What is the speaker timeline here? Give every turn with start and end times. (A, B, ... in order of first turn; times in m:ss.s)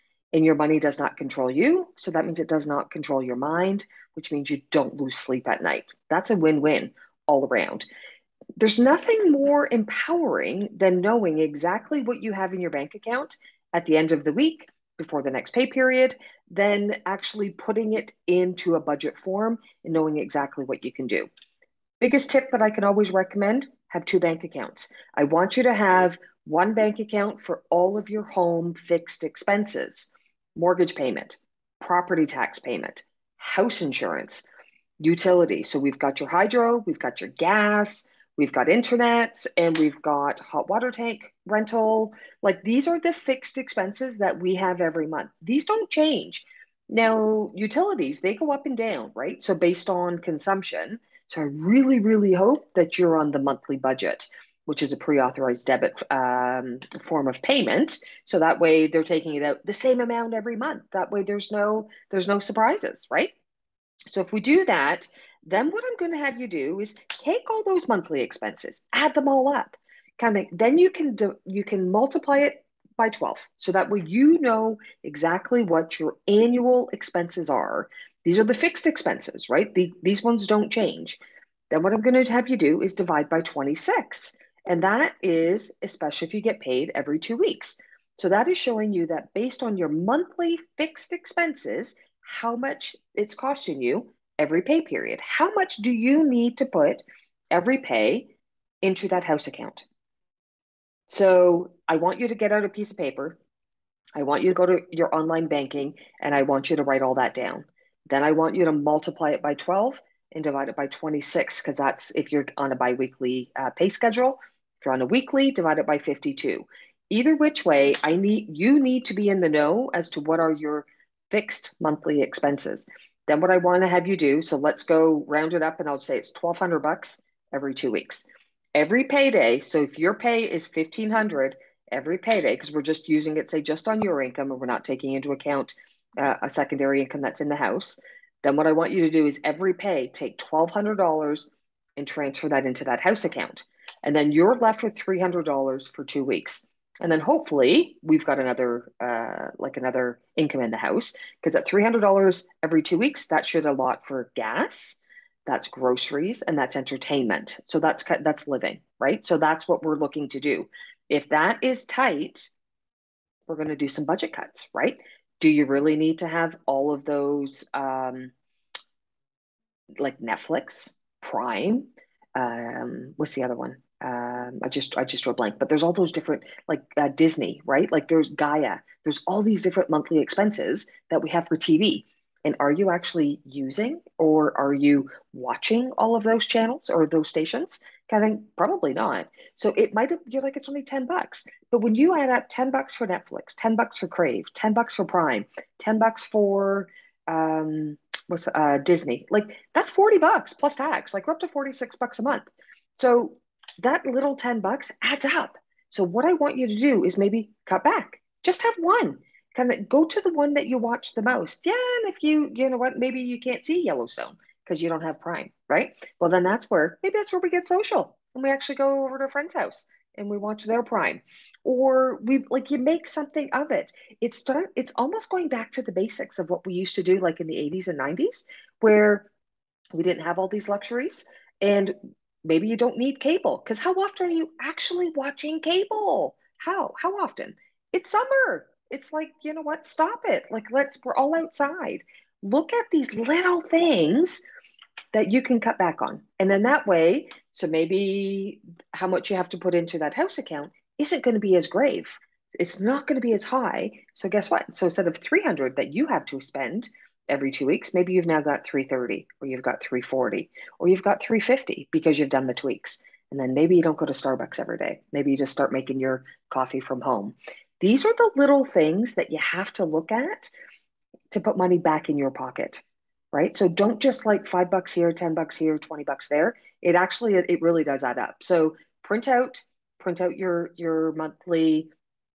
0:00.3-0:07.8 A
0:08.6-0:21.3 A
0:22.0-0:34.4 A
0:35.0-1:03.3 A
1:04.1-1:21.2 A
1:21.7-1:38.3 A
1:38.8-1:39.8 A
1:41.1-1:43.4 A
1:44.2-2:42.5 A
2:43.5-2:48.3 A
2:50.0-3:49.3 A
3:49.9-4:04.4 A
4:05.1-4:30.5 A
4:31.3-4:41.9 A